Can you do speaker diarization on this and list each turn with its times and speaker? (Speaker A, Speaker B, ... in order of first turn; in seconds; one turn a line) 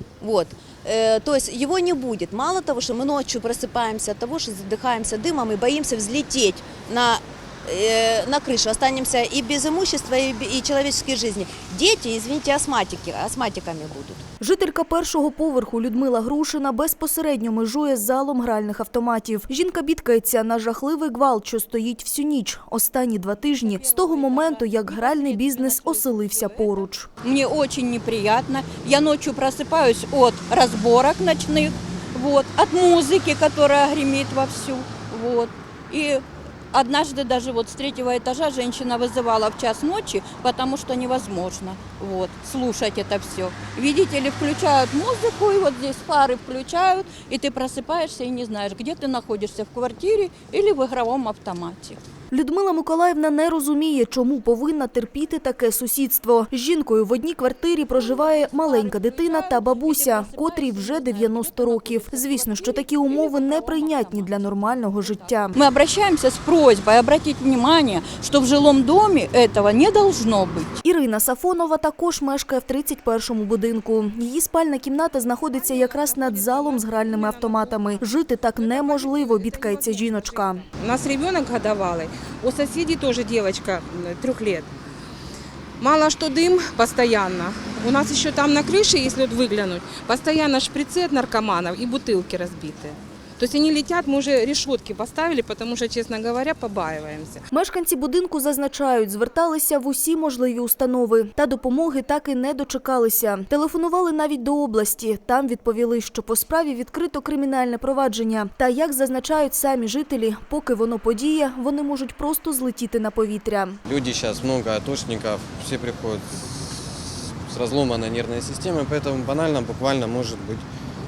Speaker A: 0.2-14.2
Speaker B: 14.4-27.1
Speaker C: 23.6-52.0
Speaker B: 52.3-65.6
Speaker C: 57.9-70.7
Speaker B: 70.8-80.7
Speaker D: 75.5-84.7
Speaker D: 85.8-97.4
Speaker B: 97.5-113.8
Speaker E: 113.9-120.6